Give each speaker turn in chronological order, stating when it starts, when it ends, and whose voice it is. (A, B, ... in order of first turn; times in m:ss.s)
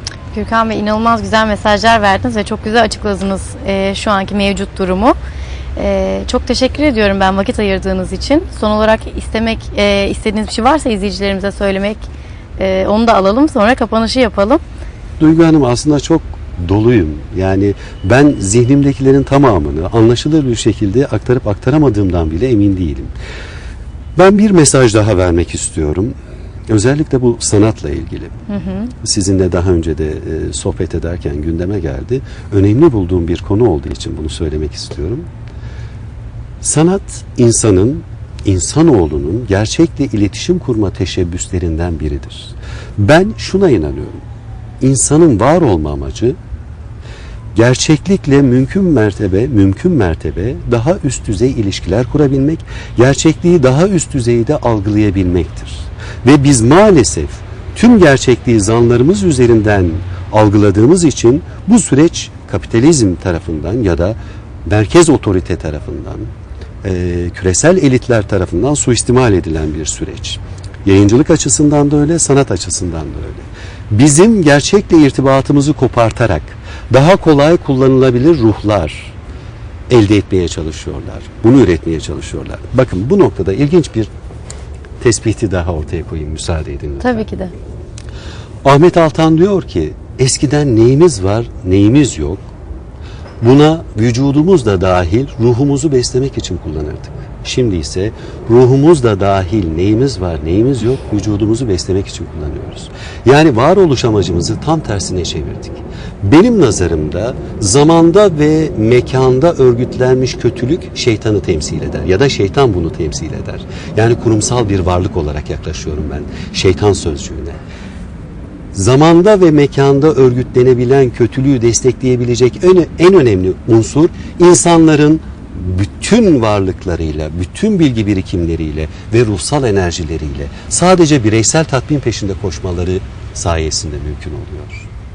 0:00.3-0:05.2 A
0:05.8-0:12.1 A
0:12.6-0:14.6 A
0:15.2-0:23.1 B
0:24.2-0:26.1 B
0:26.7-0:28.4 B
0:28.5-0:28.9 A
0:29.0-0:35.3 B
0:36.6-0:44.2 B
0:44.8-0:46.4 B
0:47.5-1:06.3 B
1:06.8-1:19.1 B
1:19.9-1:24.1 B
1:25.0-1:27.2 B
1:27.0-1:27.5 A
1:28.6-1:32.5 B
1:33.4-1:57.6 B
1:58.7-2:14.9 B